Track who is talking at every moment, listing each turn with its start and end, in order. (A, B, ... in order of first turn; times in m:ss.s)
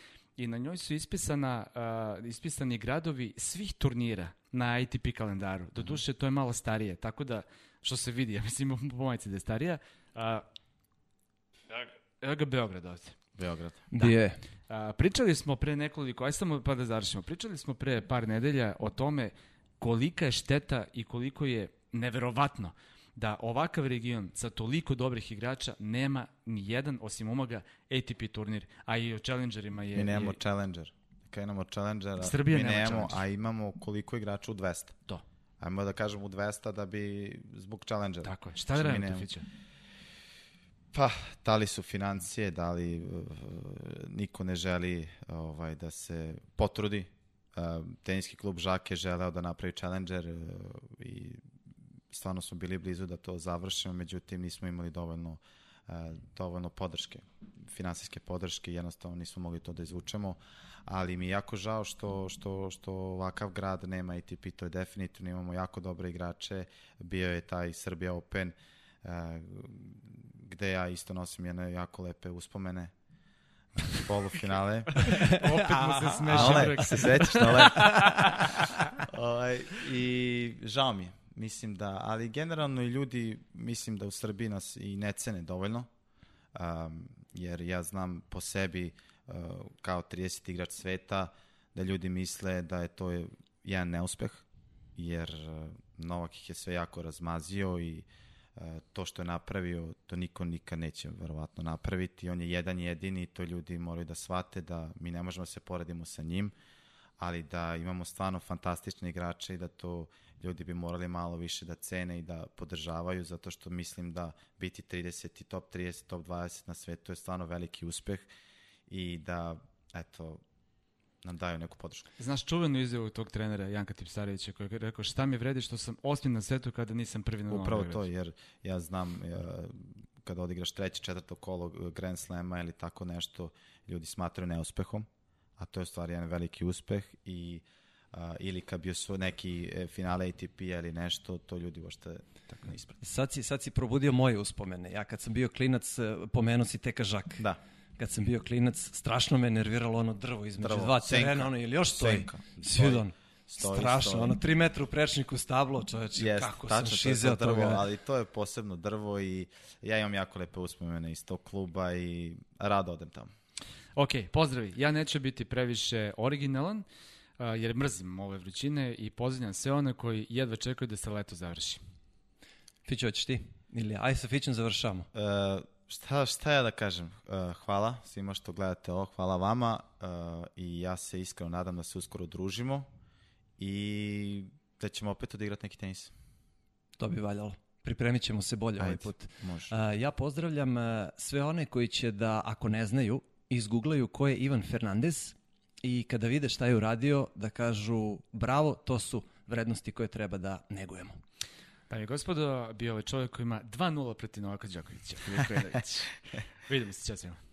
0:00.4-0:10.4 A
0:11.7-0:13.2 A
0:13.4-0:13.8 B
0:13.9-0:14.4 C
0:14.0-0:30.4 A
0:29.9-0:35.0 B
0:32.2-0:33.2 A
0:35.6-0:39.3 B
0:38.2-0:39.4 A
0:40.9-0:51.4 B
0:52.1-1:12.9 B
1:13.9-1:15.4 B
1:15.0-1:19.0 A
1:15.1-1:18.2 C
1:16.3-1:18.5 B
1:19.0-1:25.9 B
1:26.6-1:34.4 B
1:35.0-1:46.5 B
1:47.2-1:58.3 B
1:58.9-2:00.4 B
2:01.2-2:02.1 B
2:02.2-2:08.0 A
2:07.5-2:23.0 B
2:23.0-2:37.8 C
2:30.6-2:34.4 B
2:36.2-2:43.3 B
2:44.0-2:46.8 A
2:47.4-2:51.8 A
2:52.8-2:55.1 C
2:55.1-3:02.9 B
3:03.6-3:06.1 B
3:07.0-3:21.2 C
3:08.8-3:09.7 B
3:21.9-3:27.4 A